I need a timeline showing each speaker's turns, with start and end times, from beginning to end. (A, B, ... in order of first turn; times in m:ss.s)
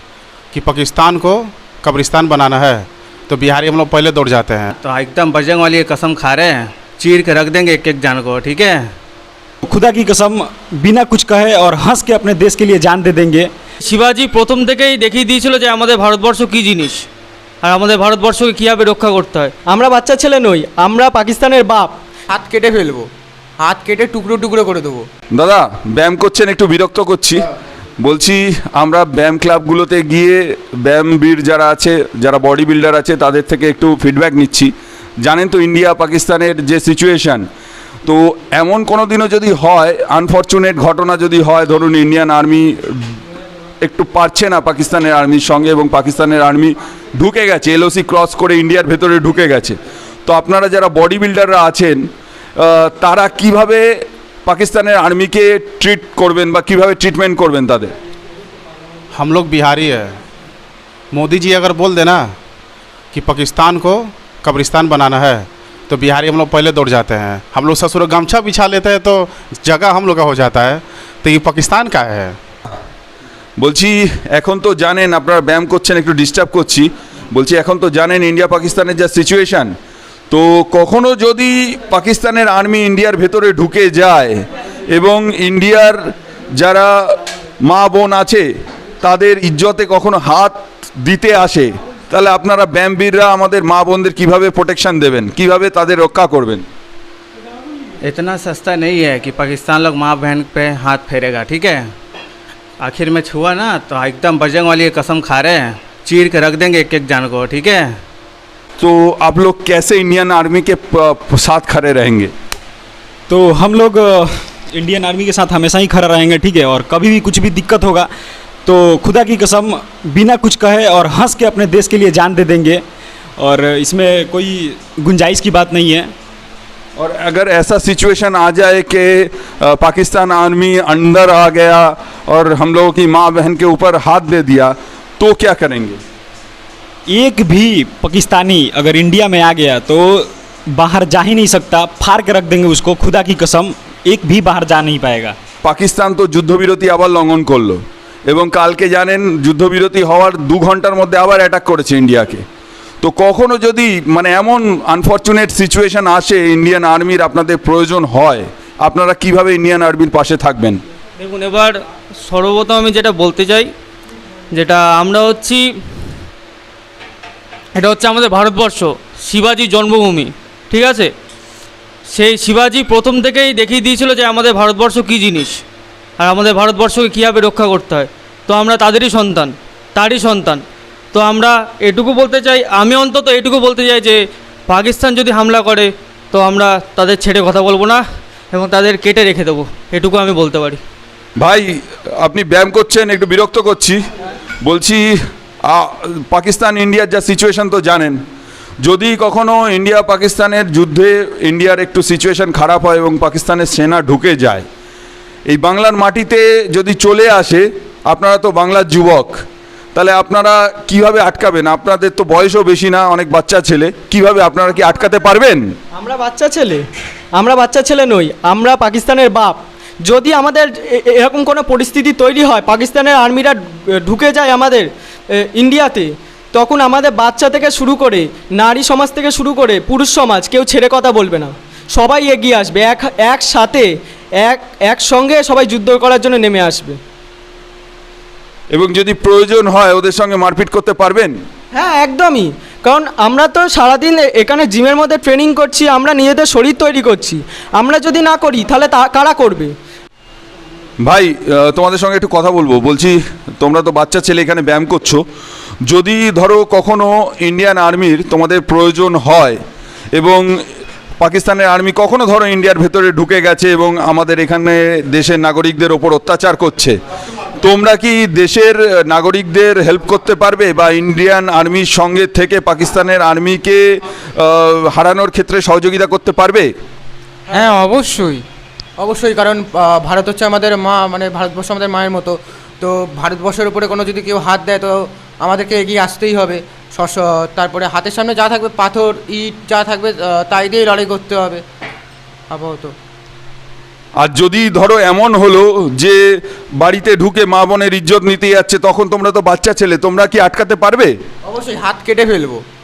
0:00.5-0:04.7 A
0:04.8-0:08.8 B
0:09.6-0:13.5 C
0:13.8-0:17.0 D
0:17.6-0:19.5 D
0:19.7-0:22.0 E
0:22.3-0:23.1 F
0:23.6-0:25.1 F
0:25.3-0:27.5 G
0:28.0-0:34.7 G
0:35.2-0:37.5 G
0:38.1-0:43.2 G
0:43.8-0:52.0 G
0:52.6-0:57.9 G
0:59.1-1:00.2 A
1:01.1-1:02.4 A
1:03.1-1:12.4 A
1:13.6-1:19.7 G
1:20.3-1:26.0 G
1:26.5-1:28.5 G
1:29.0-1:36.7 G
1:38.1-1:41.8 B
1:42.8-1:47.8 B
1:48.8-1:52.3 G
1:53.3-1:58.1 C
1:58.6-2:02.8 C
2:03.4-2:06.1 C
2:07.0-2:16.0 G
2:17.1-2:25.4 C
2:25.6-2:32.4 G
2:33.0-2:40.8 G
2:41.2-2:43.7 D
2:44.5-2:45.7 D
2:47.8-2:51.1 D
2:52.1-2:55.6 D
2:56.2-3:10.8 D
3:11.4-3:14.0 G
3:14.6-3:18.2 G
3:18.8-3:24.7 G
3:25.5-3:29.4 G
3:29.9-3:35.6 G
3:36.0-3:53.9 E
3:54.4-3:57.0 E
3:58.7-4:01.4 G
4:01.7-4:09.7 E
4:11.0-4:15.2 G
4:15.9-4:19.6 G
4:20.2-4:20.6 G
4:21.2-4:27.0 G
4:27.6-4:36.7 G
4:37.5-4:38.4 F
4:39.0-4:51.6 F
4:52.5-4:52.9 F
4:54.2-4:56.2 G
4:56.8-5:01.1 G
5:01.5-5:02.6 F